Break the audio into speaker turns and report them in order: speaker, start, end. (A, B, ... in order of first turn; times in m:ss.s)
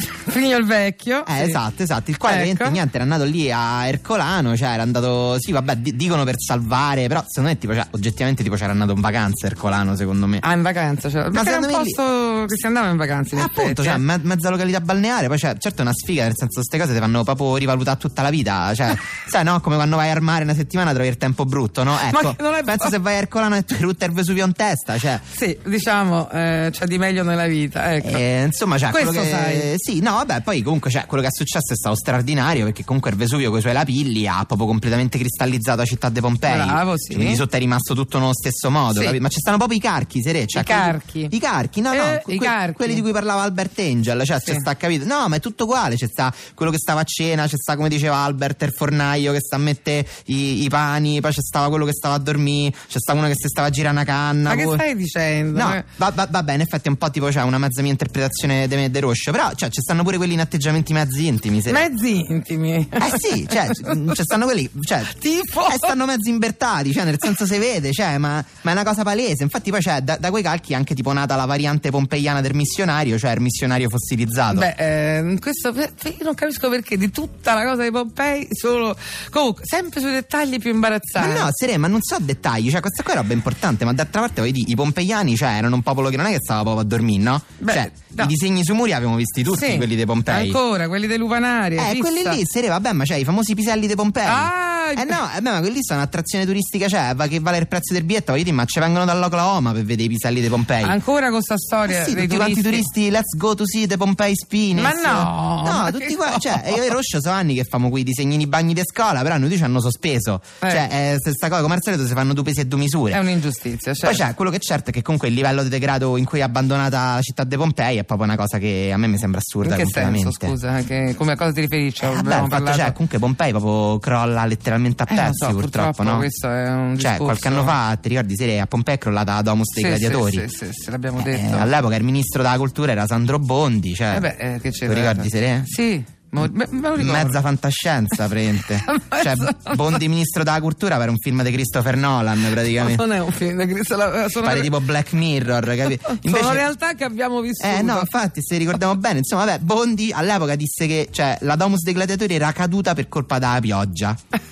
0:00.1-0:01.6 A
0:01.3-0:10.4 B
0:02.2-0:02.8 A
0:10.4-0:14.0 A
0:11.3-0:12.0 B
0:13.3-0:25.2 B
0:22.0-0:23.0 A
0:25.3-0:28.2 A
0:28.0-0:54.8 B
0:28.9-0:29.7 A
0:36.5-0:37.4 A
0:38.9-0:39.2 A
0:40.5-0:41.3 A
0:41.9-0:43.0 A
0:54.5-0:55.9 A
0:55.5-1:01.9 B
1:01.7-1:04.2 A
1:03.0-1:14.7 B
1:05.1-1:06.0 A
1:14.5-1:21.5 A
1:21.2-1:30.6 B
1:27.6-1:28.3 A
1:29.5-1:32.4 A
1:31.8-1:41.0 B
1:34.2-1:35.2 A
1:40.8-1:42.9 A
1:41.9-1:53.2 B
1:44.7-1:46.8 A
1:53.1-1:54.2 A
1:54.0-2:00.6 B
1:59.6-2:03.0 A
2:02.0-2:06.3 B
2:05.1-2:07.8 A
2:07.0-2:10.5 B
2:09.8-2:11.7 A
2:11.2-2:14.3 B
2:14.1-2:17.4 A
2:14.9-2:15.7 B
2:17.0-2:23.0 B
2:18.8-2:20.0 A
2:22.6-2:24.8 A
2:24.4-2:26.7 B
2:25.9-2:28.1 A
2:27.6-2:34.2 B